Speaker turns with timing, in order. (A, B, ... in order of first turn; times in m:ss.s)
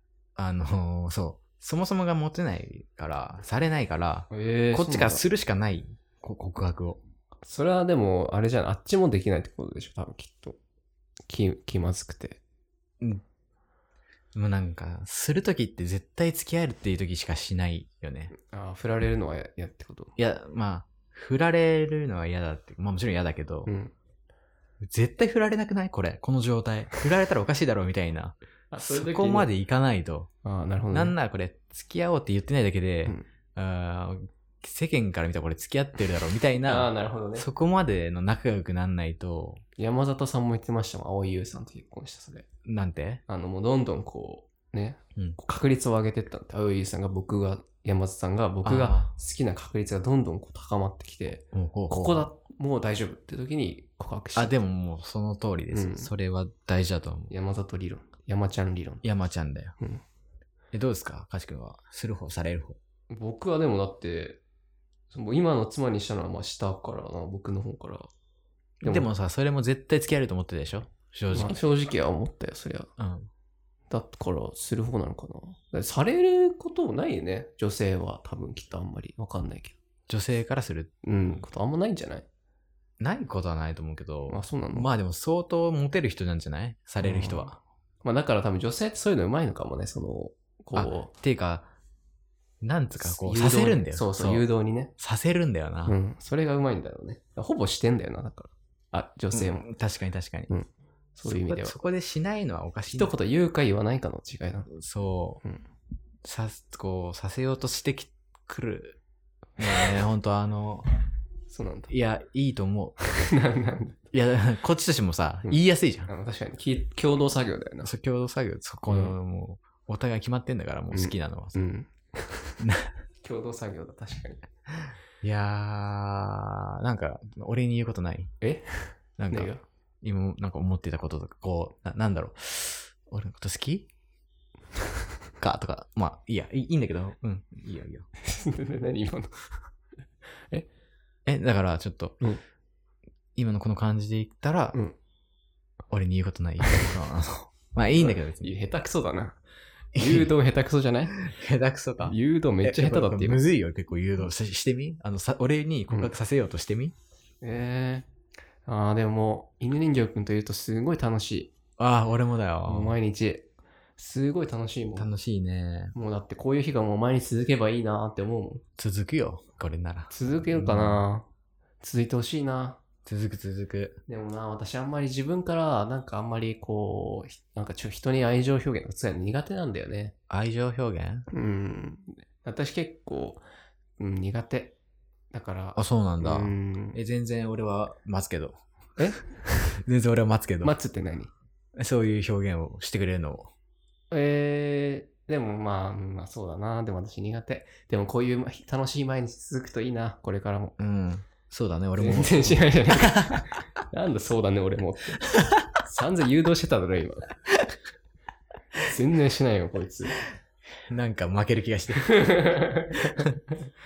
0:00.4-0:07.0 A
0:04.3-0:05.2 B
0:07.4-0:10.6 B
0:11.3-0:12.4 B
0:14.4-0:18.3 A
0:18.3-0:20.2 B
0:20.2-0:23.7 A
0:23.7-0:23.9 B
0:24.8-0:30.3 A
0:28.7-0:29.5 B
0:30.4-0:31.2 B
0:30.9-0:39.6 A
0:36.6-0:37.5 B
0:39.8-0:42.5 B
0:42.7-0:43.2 A
0:43.3-0:54.6 B
0:48.6-0:49.1 A
0:51.5-0:52.3 A
0:54.4-0:57.3 A
0:55.7-0:56.1 B
0:57.3-0:59.0 B
0:59.0-0:59.7 A
1:00.7-1:02.8 A
1:03.1-1:04.4 B
1:05.1-1:08.1 B
1:08.8-1:09.1 B
1:08.8-1:11.6 A
1:11.3-1:12.9 B
1:13.0-1:13.3 A
1:13.9-1:19.8 B
1:20.1-1:20.9 A
1:21.0-1:22.3 B
1:23.0-1:27.6 A
1:24.3-1:24.9 B
1:27.0-1:31.1 B
1:30.7-1:31.7 A
1:32.6-1:34.5 A
1:33.0-1:34.9 B
1:35.0-1:36.0 A
1:35.9-1:39.7 B
1:39.3-1:40.5 A
1:40.5-1:41.8 B
1:41.2-1:43.1 A
1:42.9-1:44.7 B
1:44.7-1:45.4 A
1:46.2-1:49.0 A
1:49.6-1:50.9 A
1:51.5-1:51.9 B
1:51.9-1:53.0 A
1:53.1-1:54.0 B
1:54.1-1:56.1 A
1:56.1-1:57.9 B
1:57.8-2:01.7 A
1:58.9-1:59.2 B
2:00.9-2:02.6 B
2:02.6-2:03.0 A
2:03.2-2:04.5 B
2:05.2-2:08.3 A
2:08.4-2:09.6 B
2:09.2-2:13.9 A
2:15.4-2:18.1 A
2:18.2-2:19.7 B
2:21.3-2:22.2 A
2:23.4-2:24.8 A
2:25.9-2:28.6 A
2:26.6-2:26.9 B
2:28.0-2:29.4 B
2:30.0-2:30.4 A
2:30.0-2:31.3 B
2:31.2-2:36.9 A
2:32.0-2:33.4 B
2:37.4-2:38.1 B
2:38.7-2:41.5 B
2:41.8-2:43.0 A
2:42.6-2:43.5 B
2:44.0-2:45.1 B
2:45.0-2:45.9 A
2:46.0-2:48.6 B
2:48.8-2:51.1 A
2:50.1-2:51.3 B
2:51.8-2:52.8 B
2:53.1-2:54.0 A
2:54.1-3:00.2 B
3:00.3-3:01.3 A
3:01.3-3:03.4 B
3:04.0-3:04.8 B
3:05.3-3:07.0 B
3:05.8-3:08.6 A
3:09.0-3:09.7 B
3:09.8-3:10.8 A
3:10.6-3:11.3 B
3:11.8-3:13.5 A
3:14.1-3:20.8 B
3:20.8-3:23.5 A
3:22.0-3:25.3 B
3:25.8-3:27.3 B
3:28.9-3:30.2 B
3:30.9-3:32.5 A
3:32.0-3:33.7 B